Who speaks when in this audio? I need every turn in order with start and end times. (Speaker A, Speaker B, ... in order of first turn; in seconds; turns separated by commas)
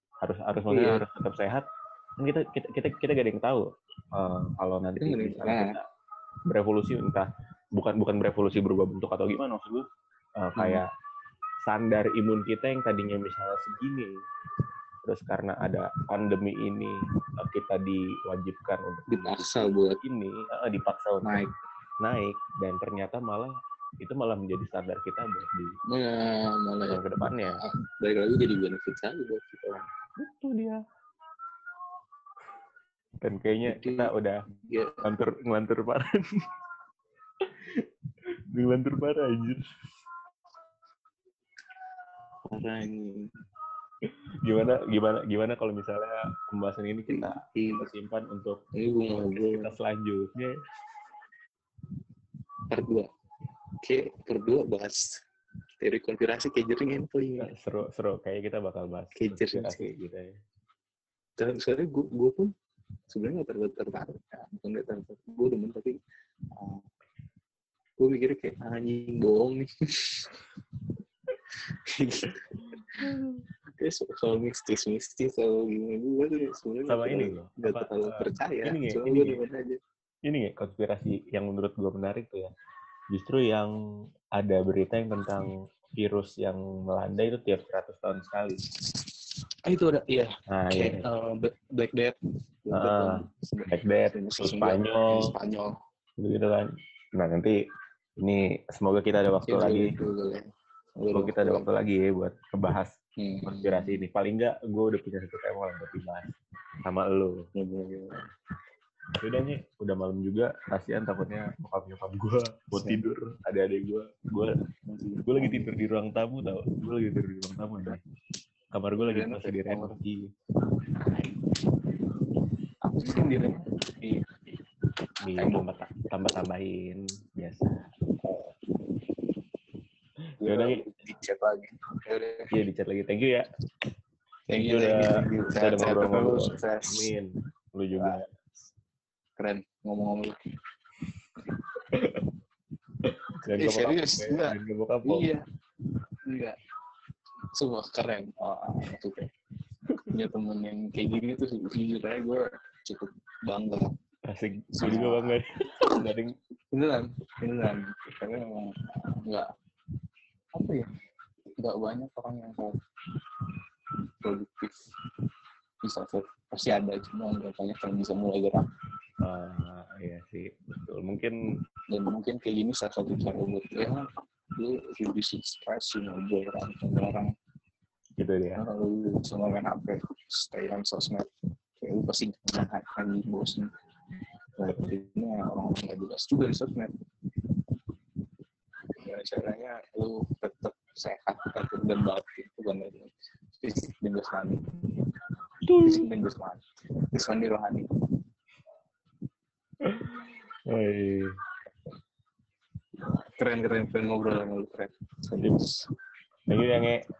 Speaker A: 0.2-1.6, Speaker B: 0.7-1.0, Speaker A: 2.2-5.8, Speaker B: 5.0-5.7, Speaker A: 6.5-9.8, Speaker A: 10.4-10.8, Speaker B: 10.6-10.8, Speaker A: 11.6-14.1, Speaker A: 15.0-21.4, Speaker B: 19.1-20.0, Speaker B: 21.2-21.5, Speaker A: 22.0-25.7, Speaker B: 25.9-29.8, Speaker A: 26.9-27.6, Speaker A: 30.2-30.8, Speaker A: 33.2-34.4, Speaker B: 33.6-34.1, Speaker B: 34.6-35.0, Speaker A: 35.0-36.0, Speaker A: 38.5-39.6, Speaker B: 42.5-43.2, Speaker A: 44.4-48.6, Speaker B: 47.1-47.9, Speaker B: 48.8-49.7, Speaker A: 49.4-50.5, Speaker B: 52.7-53.1, Speaker B: 53.8-55.0, Speaker B: 55.8-57.5, Speaker A: 57.4-60.3, Speaker B: 59.1-59.9, Speaker B: 61.4-62.5, Speaker B: 63.1-66.0, Speaker B: 66.6-66.8, Speaker B: 68.0-70.3, Speaker B: 72.0-72.6, Speaker A: 73.0-73.4, Speaker B: 73.8-79.8, Speaker A: 76.9-79.4, Speaker A: 80.2-82.5, Speaker A: 83.1-83.7, Speaker A: 84.4-88.6, Speaker B: 89.7-95.7, Speaker A: 90.5-91.0, Speaker A: 92.7-93.1, Speaker A: 93.7-95.1, Speaker A: 96.2-97.5, Speaker A: 98.2-99.9, Speaker B: 99.5-100.4, Speaker B: 101.0-101.7, Speaker A: 101.1-102.9, Speaker B: 103.2-104.0, Speaker A: 103.5-106.3, Speaker A: 106.8-107.4, Speaker B: 107.5-108.2, Speaker A: 109.2-114.5, Speaker B: 112.7-113.0, Speaker B: 114.9-115.8, Speaker A: 115.2-118.0, Speaker A: 118.7-120.2, Speaker B: 119.0-120.0, Speaker B: 121.1-121.4, Speaker B: 122.8-124.5, Speaker A: 125.2-127.8, Speaker B: 128.2-128.5, Speaker A: 130.4-130.8, Speaker B: 130.4-132.5, Speaker A: 132.5-133.4, Speaker B: 134.5-137.1, Speaker A: 134.6-138.3, Speaker B: 137.9-138.2, Speaker B: 139.4-140.3, Speaker A: 143.4-145.3, Speaker B: 143.6-145.4, Speaker B: 146.3-146.6, Speaker B: 147.5-149.3, Speaker B: 150.1-153.9, Speaker A: 154.3-156.3, Speaker B: 154.8-155.4, Speaker B: 156.7-159.5, Speaker B: 160.6-160.8, Speaker B: 161.6-162.7, Speaker B: 164.2-164.8, Speaker B: 165.8-168.6, Speaker A: 169.2-171.3, Speaker B: 171.9-174.0, Speaker B: 174.6-177.3, Speaker A: 178.2-178.6, Speaker B: 178.6-181.2, Speaker B: 181.8-183.7, Speaker B: 184.6-186.9, Speaker B: 189.0-194.6, Speaker A: 195.6-196.1, Speaker B: 195.8-196.6, Speaker B: 197.1-197.8, Speaker A: 199.8-201.3, Speaker B: 203.4-205.8, Speaker A: 206.5-207.0